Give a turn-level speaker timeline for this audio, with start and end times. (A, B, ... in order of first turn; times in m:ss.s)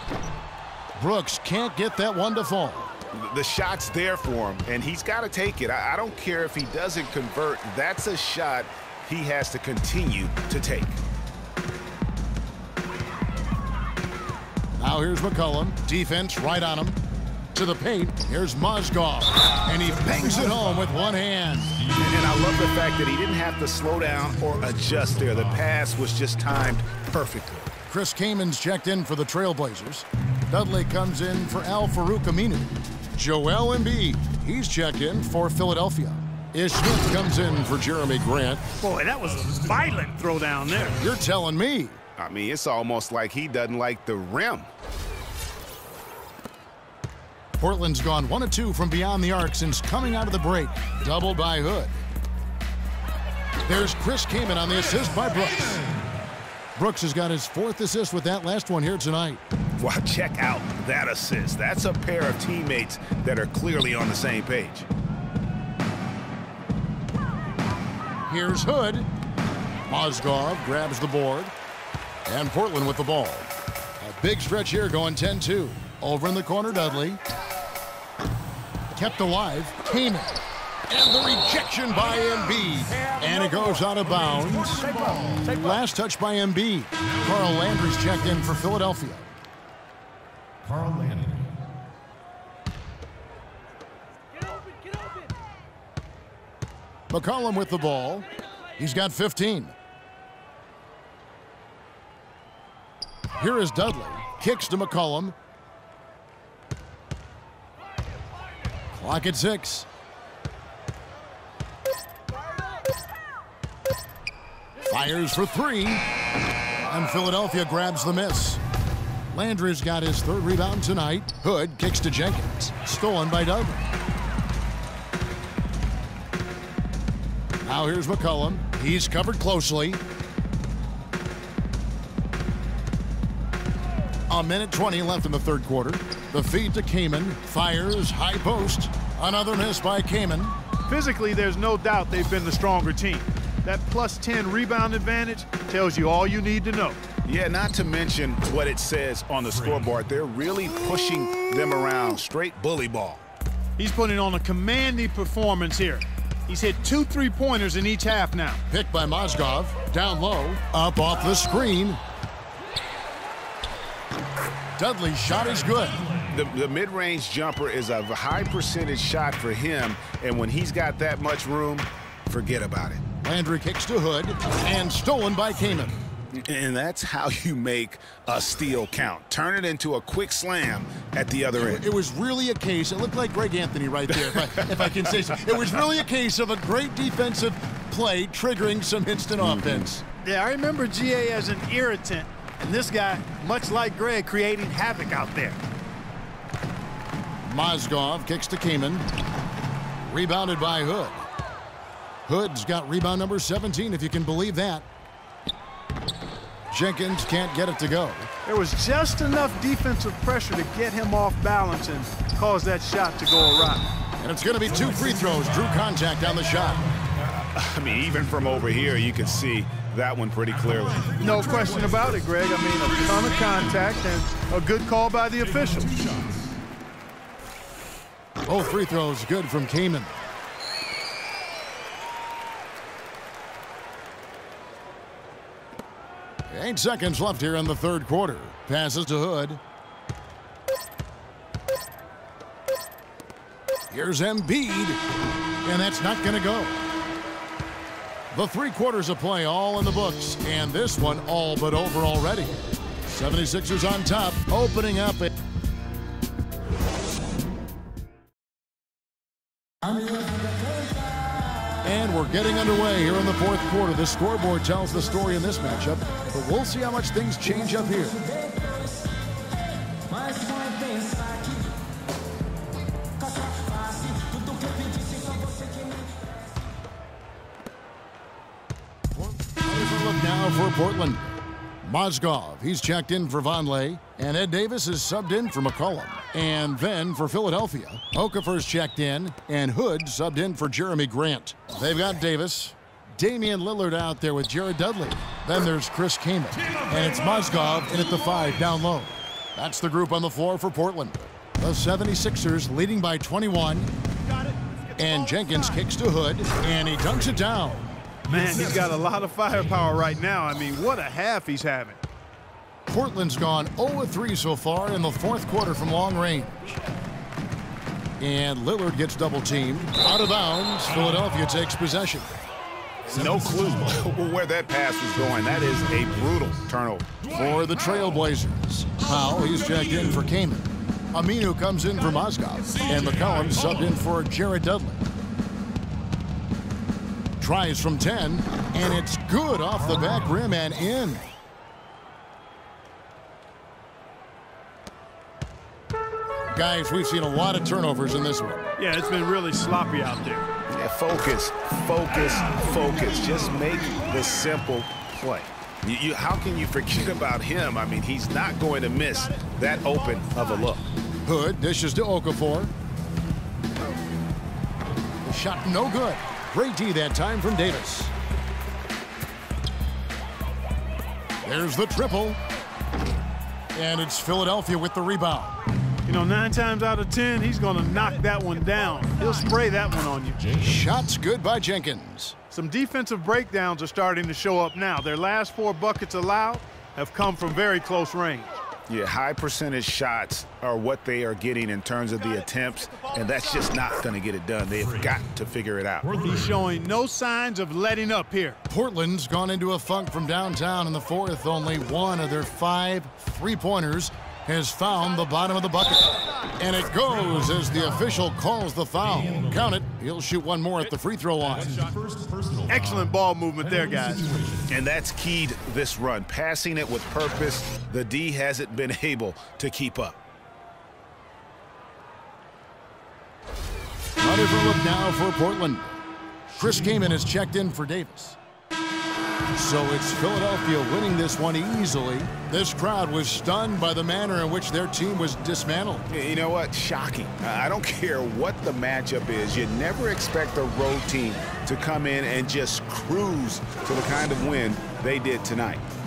0:01.0-0:02.9 A
0:03.1-0:11.0 B
0:14.8-0:17.0 A
0:17.5-0:21.8 A
0:22.0-0:27.8 B
0:24.7-0:25.5 C
0:27.9-0:38.6 A
0:38.8-0:41.0 D
0:41.0-0:42.0 A
0:42.2-0:44.7 B
0:47.6-0:52.0 A
0:53.7-0:55.8 A
0:56.8-0:59.4 A
0:59.8-1:04.9 B
1:08.3-1:09.1 A
1:09.9-1:11.5 A
1:12.3-1:17.2 A
1:18.9-1:29.3 A
1:24.3-1:25.4 C
1:30.6-1:31.5 C
1:37.1-1:38.3 A
1:38.8-1:39.7 A
1:43.4-1:45.4 A
1:48.9-1:49.9 A
1:54.8-1:56.0 A
1:56.8-1:58.6 A
1:59.3-2:03.9 A
2:07.6-2:10.0 A
2:14.3-2:20.6 A
2:20.9-2:27.0 D
2:27.3-2:33.2 B
2:33.8-2:38.6 D
2:38.7-2:42.0 A
2:44.8-2:46.0 A
2:46.3-2:53.0 B
2:53.2-2:56.0 A
2:56.3-3:01.8 B
3:01.6-3:10.0 A
3:04.1-3:04.9 B
3:09.4-3:09.9 B
3:10.2-3:15.6 D
3:17.4-3:19.1 A
3:20.0-3:21.3 A
3:22.3-3:24.8 A
3:26.7-3:28.3 A
3:28.4-3:33.9 D
3:34.2-3:36.9 A
3:37.4-3:41.2 B
3:41.2-3:46.1 D
3:46.0-3:46.4 C
3:48.5-3:50.2 A
3:56.5-3:59.6 A
4:03.9-4:05.0 A
4:05.6-4:06.8 A
4:08.3-4:15.3 A
4:21.8-4:28.2 A
4:39.4-4:41.3 A
4:41.8-5:03.9 A
5:05.0-5:07.9 A
5:08.3-5:12.0 D
5:12.9-5:16.8 A
5:18.2-5:22.4 A
5:23.1-5:27.1 B
5:27.3-5:35.0 A
5:37.4-5:41.3 A
5:46.5-5:48.7 A
5:48.8-5:50.5 D
5:50.7-6:00.9 B
6:01.2-6:02.7 A
6:05.2-6:08.1 A
6:11.4-6:12.4 A
6:13.8-6:15.6 A
6:16.1-6:20.4 D
6:20.4-6:20.8 C
6:20.6-6:22.4 A
6:22.5-6:28.5 D
6:28.9-6:36.1 B
6:32.9-6:33.5 D
6:36.2-6:38.6 D
6:38.7-6:51.8 A
6:49.2-6:49.5 C
6:51.7-6:53.1 C
6:52.7-6:54.3 D
6:54.3-6:54.7 C
6:54.7-7:00.2 B
7:04.2-7:05.9 A
7:06.5-7:08.4 A
7:09.5-7:16.0 A
7:16.1-7:25.8 B